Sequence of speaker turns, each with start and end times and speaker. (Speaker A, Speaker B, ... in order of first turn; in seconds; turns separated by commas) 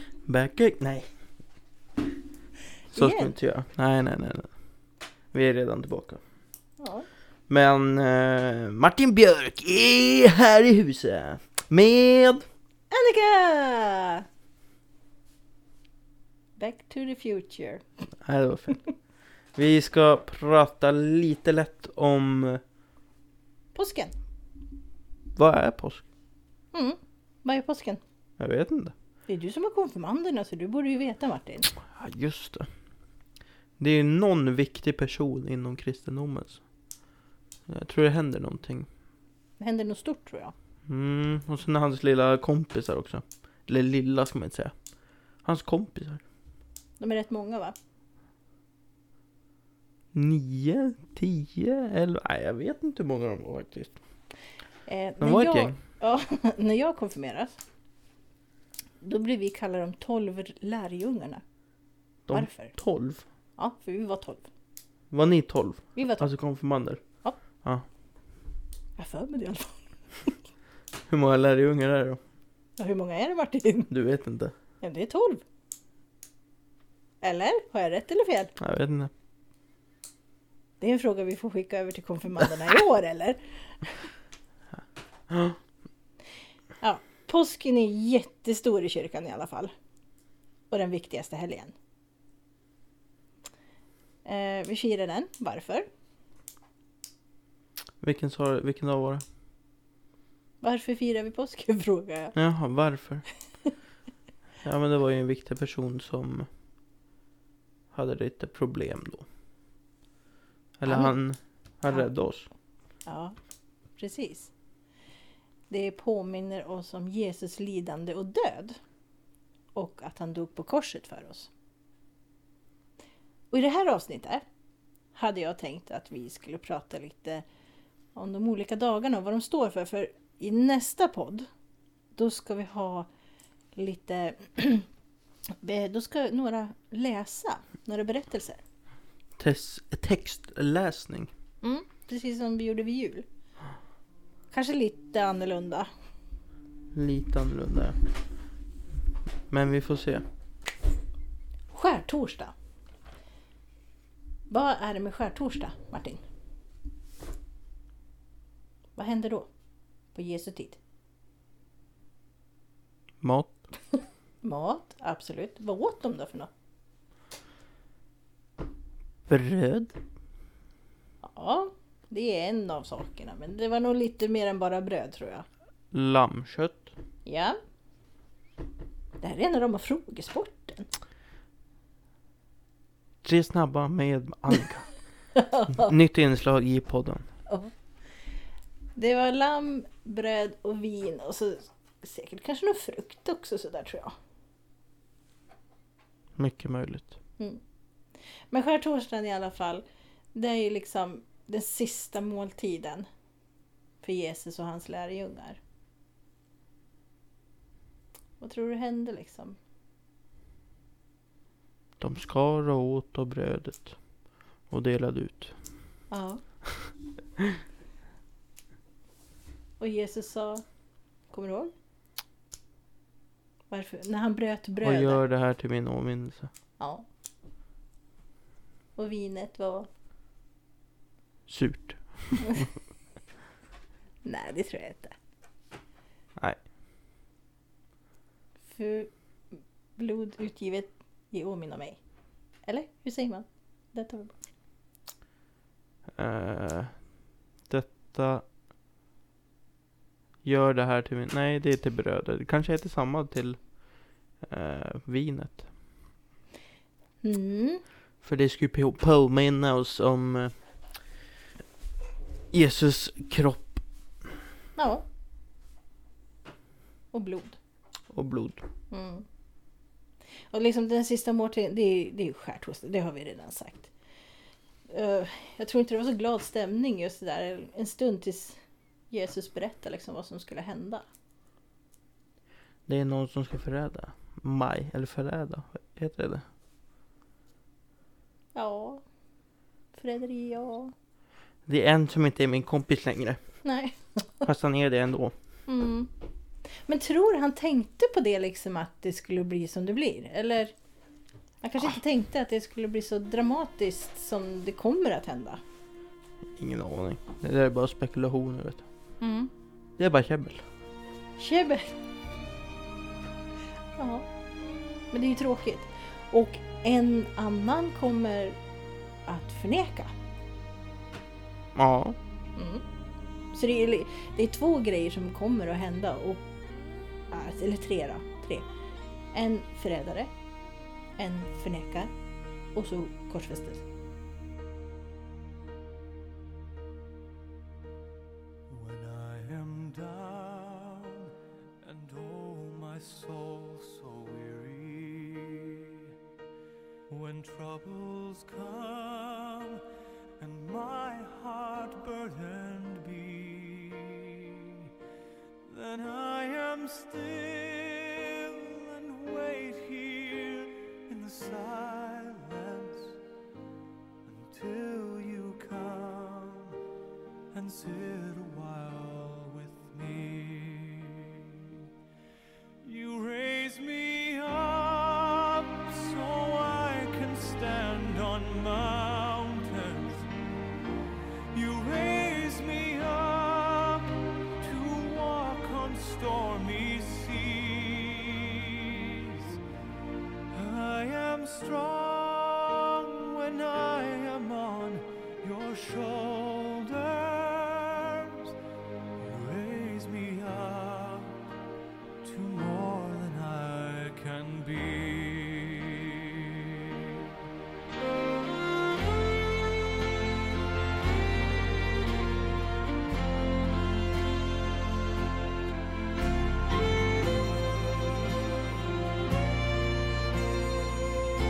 Speaker A: 0.3-1.1, Speaker A: 2.9-4.5, Speaker B: 2.9-3.3, Speaker A: 5.3-6.2, Speaker B: 6.8-7.1, Speaker A: 7.5-12.5, Speaker B: 12.9-14.3, Speaker B: 16.6-17.8, Speaker A: 18.2-18.8, Speaker A: 19.6-22.6, Speaker B: 23.8-24.1, Speaker A: 25.4-26.0, Speaker B: 26.7-28.0, Speaker A: 28.4-28.9, Speaker B: 29.3-31.7, Speaker A: 31.8-32.7, Speaker A: 33.8-36.6, Speaker A: 37.7-38.9, Speaker B: 39.6-40.5, Speaker A: 40.9-44.7, Speaker A: 45.4-46.2, Speaker B: 47.0-47.8, Speaker A: 50.1-54.0, Speaker B: 54.9-57.6, Speaker A: 55.2-55.8, Speaker B: 59.0-61.4, Speaker A: 62.3-63.2, Speaker B: 62.3-62.8, Speaker B: 63.6-64.5, Speaker A: 65.1-67.0, Speaker B: 66.0-66.3, Speaker B: 69.0-70.4, Speaker A: 71.1-72.2, Speaker B: 72.8-73.9, Speaker A: 73.9-74.5, Speaker B: 74.8-75.4, Speaker B: 77.2-78.5, Speaker A: 78.6-79.1, Speaker B: 80.8-83.9, Speaker A: 85.3-85.6, Speaker B: 86.8-89.7, Speaker B: 90.7-91.7, Speaker B: 94.2-95.9, Speaker A: 98.0-99.2, Speaker B: 100.6-102.4, Speaker A: 102.3-103.2, Speaker A: 104.6-106.5, Speaker A: 107.9-109.2, Speaker A: 110.8-112.5, Speaker B: 110.9-111.2, Speaker B: 113.1-113.3, Speaker B: 114.0-114.5, Speaker B: 115.7-118.8, Speaker B: 119.8-121.5, Speaker B: 123.5-124.4, Speaker B: 125.2-127.4, Speaker B: 128.2-131.5, Speaker B: 132.2-133.1, Speaker B: 133.8-134.9, Speaker B: 135.6-138.6, Speaker A: 139.4-141.3, Speaker B: 141.6-143.3, Speaker B: 144.5-145.9, Speaker A: 146.9-148.0, Speaker A: 149.5-150.2, Speaker B: 151.7-152.5, Speaker B: 154.5-156.2, Speaker B: 159.0-159.5, Speaker B: 160.1-160.8, Speaker A: 163.2-163.6, Speaker B: 164.4-166.5, Speaker A: 169.3-170.0, Speaker B: 171.2-175.5, Speaker A: 175.9-176.9, Speaker B: 177.2-177.6, Speaker B: 179.2-180.9, Speaker A: 183.2-184.9, Speaker B: 185.3-185.9, Speaker A: 185.7-187.3, Speaker B: 189.0-194.2, Speaker A: 196.4-197.2, Speaker B: 198.5-203.1, Speaker B: 204.0-205.6, Speaker B: 208.4-209.6, Speaker A: 212.0-214.0, Speaker A: 214.7-215.6, Speaker B: 216.1-216.4, Speaker B: 219.8-220.6, Speaker B: 221.3-221.7, Speaker B: 223.7-225.2, Speaker A: 224.8-226.5, Speaker B: 226.8-227.1, Speaker B: 229.0-229.9, Speaker A: 231.5-232.7, Speaker B: 234.2-235.2, Speaker B: 238.7-239.1, Speaker B: 240.0-242.0, Speaker B: 242.7-244.3, Speaker A: 246.2-247.0, Speaker A: 247.7-248.5, Speaker A: 250.4-253.6, Speaker A: 254.4-255.7, Speaker B: 257.2-257.8, Speaker A: 258.2-260.5, Speaker A: 262.5-263.8, Speaker B: 264.8-265.1, Speaker B: 267.1-267.6, Speaker A: 268.1-268.6, Speaker B: 268.9-269.3, Speaker B: 270.5-273.9, Speaker B: 274.9-278.6, Speaker B: 279.1-281.1, Speaker A: 282.9-286.4, Speaker B: 288.6-289.0, Speaker B: 289.9-290.9, Speaker A: 291.7-293.4, Speaker B: 293.6-294.5, Speaker A: 294.4-295.3, Speaker B: 295.7-296.1, Speaker B: 296.9-300.7, Speaker B: 301.6-305.6, Speaker A: 306.6-308.8, Speaker B: 309.2-309.5, Speaker A: 310.0-310.6, Speaker B: 311.4-312.0, Speaker B: 314.0-314.3, Speaker B: 315.1-318.6, Speaker B: 319.3-320.1, Speaker A: 321.8-322.2, Speaker B: 322.6-322.8, Speaker B: 323.5-326.5, Speaker B: 327.3-328.7, Speaker B: 329.3-330.3, Speaker B: 331.2-332.1, Speaker B: 332.8-333.8, Speaker C: 338.7-346.1, Speaker C: 347.1-349.8, Speaker C: 350.4-354.9, Speaker C: 355.7-363.2, Speaker C: 364.3-366.8, Speaker C: 367.5-371.8, Speaker C: 372.8-380.3, Speaker C: 381.5-389.6, Speaker C: 390.5-398.5, Speaker C: 399.2-401.4, Speaker C: 402.2-407.3